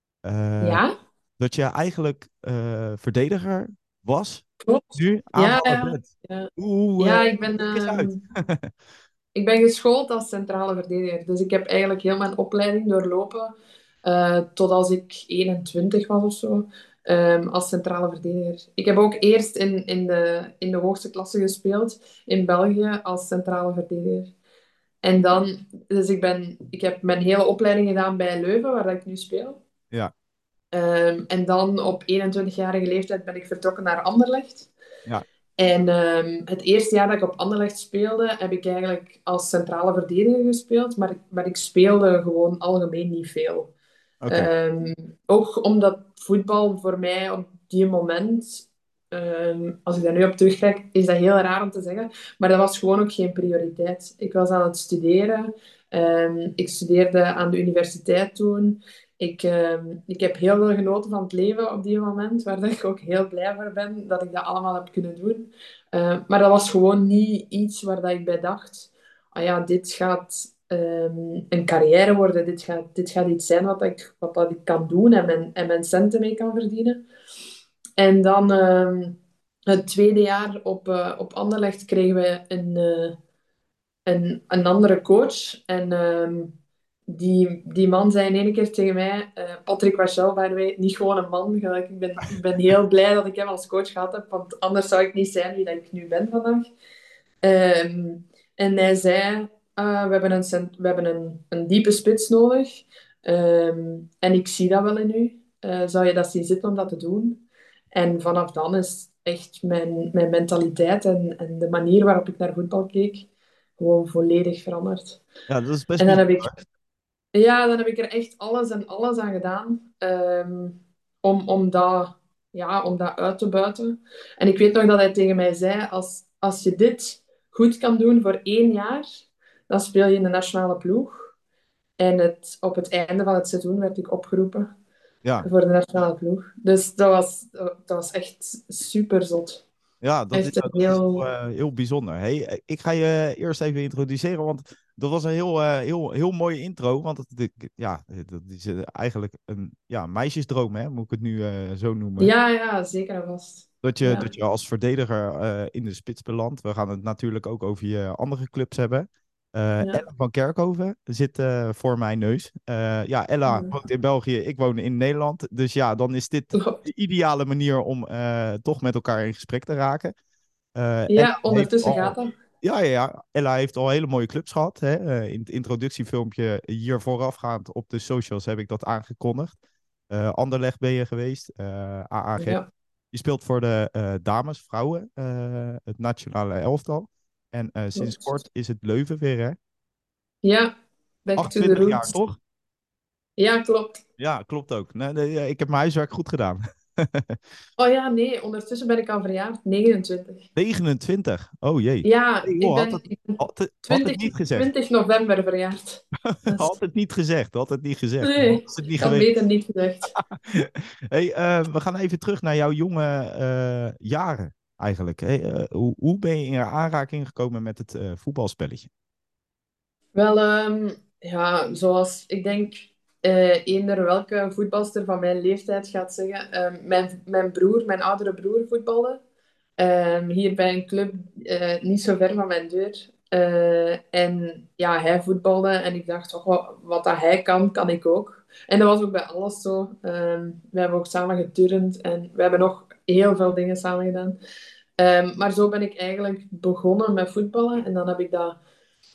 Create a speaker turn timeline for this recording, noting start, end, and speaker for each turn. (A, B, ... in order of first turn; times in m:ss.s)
0:00.2-0:00.8 A
0:00.6-0:00.9 B
0:01.4-0:08.7 A
0:04.6-0:08.2 B
0:09.4-0:13.5 B
0:14.0-0:24.3 B
0:25.0-0:29.6 B
0:30.7-0:34.7 B
0:35.6-0:43.7 B
0:44.2-0:44.5 A
0:44.3-1:17.0 B
1:18.0-1:23.2 B
1:24.1-1:26.5 B
1:27.1-1:36.7 B
1:37.4-1:55.2 B
1:55.5-1:56.6 A
1:56.0-1:56.6 B
1:57.3-2:09.1 B
2:09.7-2:11.3 B
2:12.0-2:14.7 B
2:15.4-2:19.6 B
2:20.0-2:32.3 A
2:20.3-2:21.3 B
2:32.2-2:34.3 B
2:33.8-2:50.1 A
2:43.5-2:43.8 B
2:46.5-2:46.8 B
2:50.8-2:59.6 A
2:51.1-2:52.3 B
3:00.1-3:02.6 A
3:02.4-3:02.7 B
3:03.1-3:09.6 A
3:08.0-3:08.3 B
3:10.4-3:10.7 B
3:11.2-3:12.2 B
3:11.4-3:12.4 A
3:13.4-3:14.0 B
3:14.2-3:17.4 A
3:17.8-3:20.5 B
3:20.6-3:24.7 A
3:22.0-3:26.7 B
3:26.3-3:29.3 A
3:28.2-3:30.1 B
3:30.2-3:38.9 A
3:40.2-3:49.2 B
3:49.8-4:04.4 B
4:05.0-4:08.6 B